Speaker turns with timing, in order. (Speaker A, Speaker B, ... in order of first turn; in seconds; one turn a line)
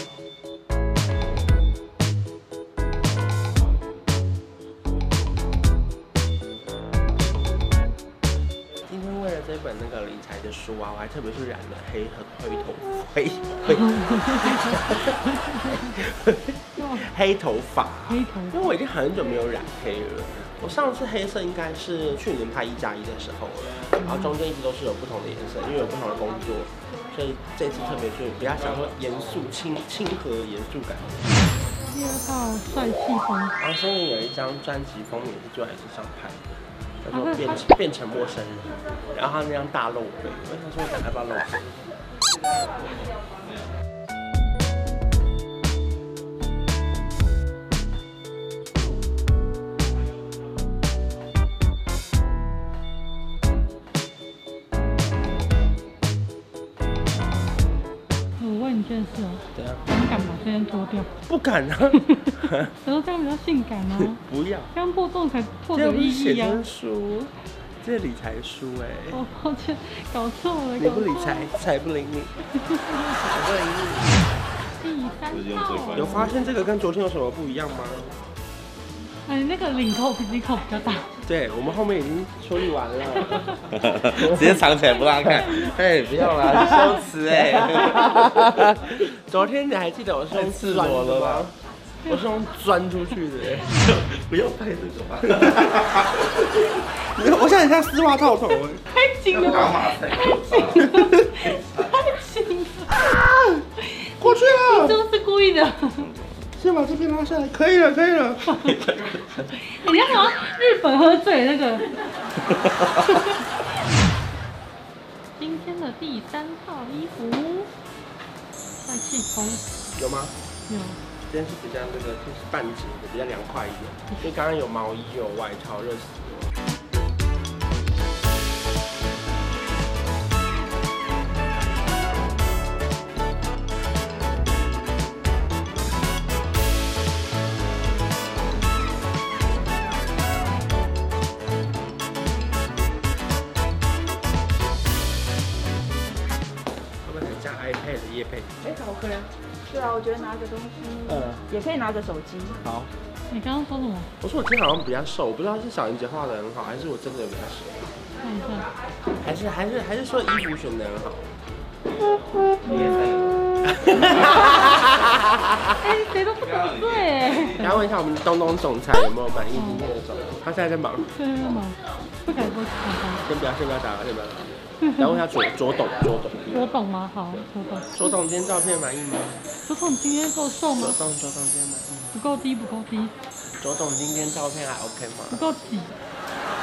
Speaker A: 8.9-31.1
Speaker B: 13.9-15.6
Speaker B: 16.8-17.1
Speaker B: 18.1-18.6
Speaker B: 24.0-24.3
Speaker B: 31.9-33.5
Speaker A: 33.6-36.4
Speaker A: 37.0-41.7
Speaker B: 37.1-37.6
Speaker B: 58.4-61.1
Speaker A: 59.5-59.8
Speaker A: 61.3-62.7
Speaker B: 62.3-64.2
Speaker A: 64.1-64.7
Speaker B: 64.7-66.6
Speaker A: 65.7-69.2
Speaker B: 69.1-71.5
Speaker A: 70.8-72.3
Speaker B: 72.6-73.1
Speaker A: 73.2-74.2
Speaker B: 74.8-76.3
Speaker C: 75.3-76.3
Speaker A: 76.0-78.1
Speaker B: 79.3-81.1
Speaker A: 81.2-83.6
Speaker C: 83.7-88.8
Speaker A: 84.2-84.6
Speaker B: 84.4-85.8
Speaker A: 86.3-91.5
Speaker B: 86.4-86.9
Speaker C: 90.3-91.5
Speaker A: 92.1-93.8
Speaker C: 93.7-96.7
Speaker A: 97.0-98.8
Speaker B: 98.9-102.9
Speaker C: 99.3-100.9
Speaker A: 103.0-103.6
Speaker B: 104.0-106.1
Speaker A: 104.2-105.0
Speaker A: 106.6-108.8
Speaker B: 108.5-108.8
Speaker B: 109.5-112.0
Speaker B: 115.4-117.7
Speaker B: 118.8-119.6
Speaker A: 120.0-120.3
Speaker B: 120.7-121.0
Speaker A: 121.3-126.5
Speaker A: 147.0-149.3
Speaker D: 149.7-152.6
Speaker A: 151.1-151.4
Speaker B: 153.3-154.1
Speaker A: 154.2-157.8
Speaker B: 158.2-158.7
Speaker A: 159.2-161.2
Speaker C: 162.7-164.3
Speaker A: 163.7-165.8
Speaker B: 164.2-164.7
Speaker B: 165.8-167.9
Speaker A: 167.6-171.1
Speaker B: 169.6-169.9
Speaker B: 171.2-173.2
Speaker A: 173.3-176.7
Speaker B: 174.8-175.2
Speaker B: 176.5-178.0
Speaker A: 177.9-179.4
Speaker B: 179.6-181.0
Speaker A: 180.8-182.2
Speaker B: 182.1-183.1
Speaker A: 183.6-185.4
Speaker B: 185.3-185.9